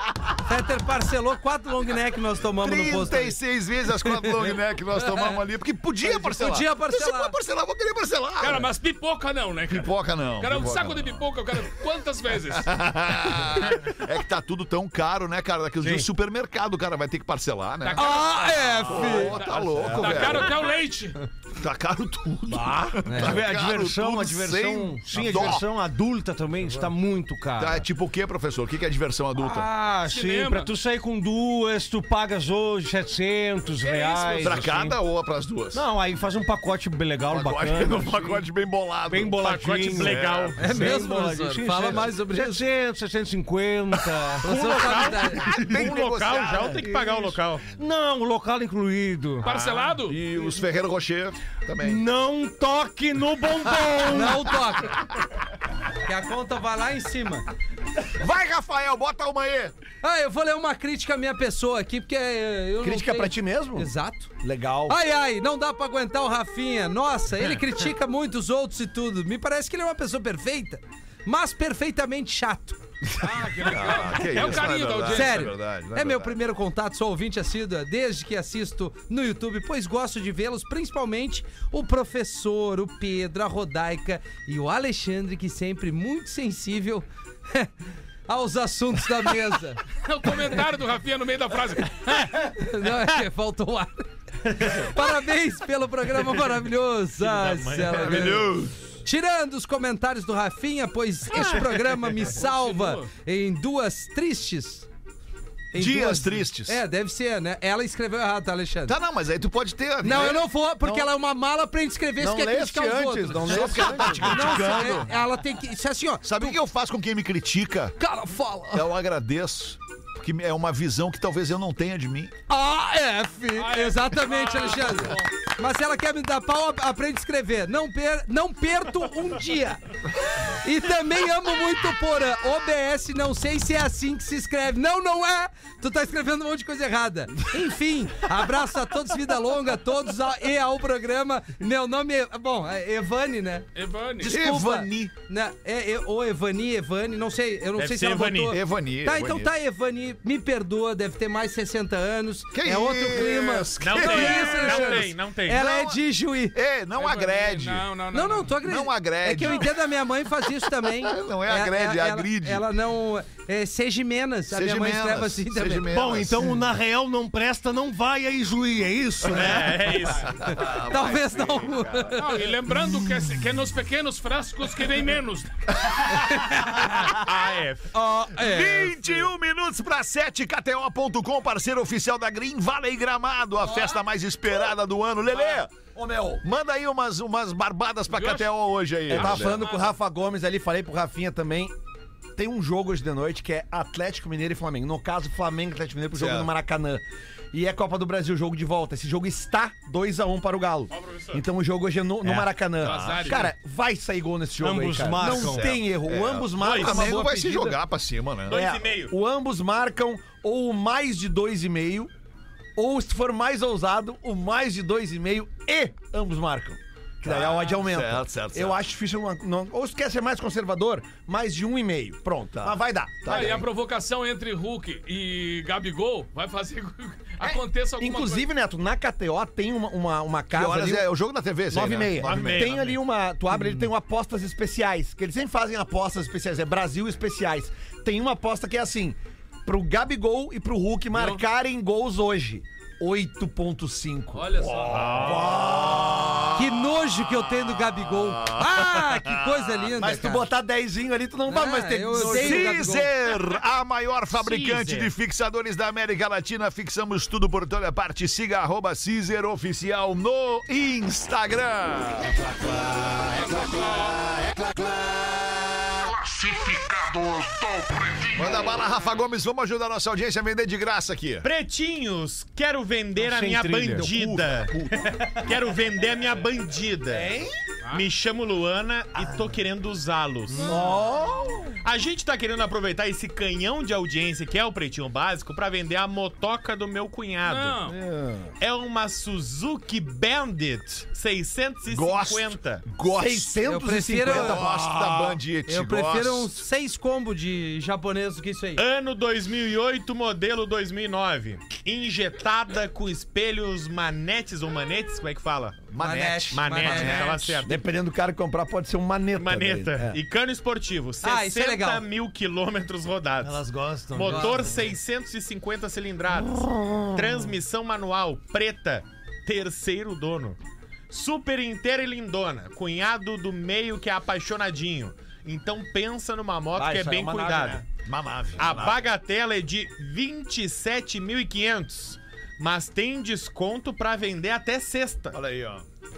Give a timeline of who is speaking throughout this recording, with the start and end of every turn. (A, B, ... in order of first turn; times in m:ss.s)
0:00.4-0:03.4 A
0:02.6-0:08.7 B
0:04.1-0:04.5 A
0:06.0-0:07.4 A
0:08.4-0:12.7 C
0:09.7-0:11.3 B
0:12.5-0:18.1 B
0:15.8-0:16.1 D
0:17.9-0:21.2 C
0:18.0-0:19.4 A
0:18.9-0:20.7 B
0:19.8-0:20.3 D
0:21.6-0:25.6 B
0:22.5-0:27.8 D
0:23.0-0:23.4 A
0:27.6-0:29.7 B
0:29.4-0:35.0 D
0:30.0-0:30.7 C
0:33.8-0:34.5 C
0:34.4-0:35.8 B
0:35.7-0:38.4 D
0:37.3-0:40.8 B
0:39.1-0:44.8 D
0:39.4-0:40.6 E
0:40.6-0:42.6 A
0:44.4-0:45.4 A
0:44.5-0:47.6 E
0:45.4-0:46.9 B
0:46.8-0:49.5 D
0:49.4-0:50.2 C
0:49.4-0:52.0 B
0:51.8-0:54.6 D
0:54.1-0:55.0 A
0:56.0-0:57.4 A
0:58.1-0:59.7 B
1:00.0-1:04.3 A
1:02.8-1:05.0 F
1:04.9-1:12.8 A
1:13.2-1:15.5 C
1:13.2-1:16.4 B
1:15.0-1:27.7 A
1:28.3-1:29.8 A
1:30.0-1:32.3 C
1:32.3-1:34.0 A
1:34.5-1:38.5 A
1:37.2-1:38.5 E
1:38.0-1:38.7 B
1:39.0-1:44.9 A
1:42.2-1:43.1 C
1:45.7-1:46.8 B
1:45.7-1:49.0 A
1:48.8-1:50.4 B
1:50.0-1:56.6 A
1:50.1-1:51.1 F
1:52.2-1:55.0 F
1:53.4-1:55.1 B
1:56.2-1:58.0 B
1:58.0-1:58.9 A
1:58.7-2:02.3 B
2:02.5-2:09.8 A
2:03.5-2:05.3 C
2:10.4-2:23.7 A
2:23.7-2:24.3 C
2:24.2-2:36.6 A
2:24.2-2:25.1 B
2:27.8-2:28.6 E
2:28.5-2:29.5 B
2:32.5-2:35.1 B
2:33.8-2:35.8 E
2:36.5-2:37.9 B
2:37.0-2:38.5 C
2:38.1-2:45.9 A
2:38.6-2:39.7 B
2:40.6-2:42.6 B
2:44.5-2:46.5 B
2:45.9-2:49.9 D
2:49.3-2:50.4 E
2:50.4-2:52.2 B
2:50.6-2:52.5 A
2:52.2-2:55.5 C
2:56.1-2:57.1 A
2:57.1-2:57.9 E
2:57.9-2:59.2 A
2:58.3-3:05.7 B
3:03.6-3:04.0 C
3:05.3-3:06.4 F
3:06.4-3:09.6 B
3:08.1-3:08.5 C
3:09.1-3:11.7 F
3:09.2-3:09.9 C
3:12.4-3:27.8 F
3:16.1-3:16.5 B
3:20.9-3:21.4 E
3:22.2-3:22.5 D
3:22.8-3:23.5 C
3:22.8-3:23.5 B
3:24.6-3:25.8 D
3:25.3-3:28.6 B
3:26.6-3:27.1 E
3:28.5-3:29.1 E
3:28.5-3:32.1 F
3:32.8-3:43.6 F
3:37.2-3:38.8 B
3:42.5-3:43.6 B
3:43.2-3:48.5 C
3:47.4-3:51.1 F
3:50.5-3:52.8 B
3:51.7-4:04.5 F
3:52.2-3:53.0 E
4:04.3-4:05.4 C
4:04.6-4:06.8 B
4:04.9-4:05.8 E
4:05.2-4:06.1 F
4:06.5-4:10.5 A
4:07.6-4:09.9 B
4:10.0-4:13.0 F
4:11.5-4:13.1 A
4:12.1-4:22.5 B
4:14.3-4:15.1 E
4:23.3-4:24.3 C
4:26.2-4:31.5 B
4:31.4-4:37.3 E
4:33.2-4:34.1 D
4:33.9-4:35.1 B
4:37.1-4:37.5 F
4:37.9-4:40.8 E
4:40.6-4:41.8 F
4:41.8-4:47.8 E
4:47.4-4:48.0 C
4:47.8-4:48.5 F
4:48.6-4:52.8 E
4:51.9-4:53.6 B
4:53.0-4:55.3 F
4:53.6-4:54.6 A
4:54.2-4:56.6 B
4:55.6-4:58.8 A
4:58.8-5:05.8 E
5:05.9-5:07.6 B
5:06.0-5:07.4 A
5:06.5-5:07.8 E
5:07.6-5:10.2 F
5:09.3-5:20.6 E
5:11.2-5:12.0 A
5:13.4-5:14.9 D
5:14.2-5:14.9 A
5:21.1-5:27.8 E
5:26.7-5:27.8 F
5:28.0-5:29.1 B
5:28.6-5:35.4 E
5:35.3-5:35.8 B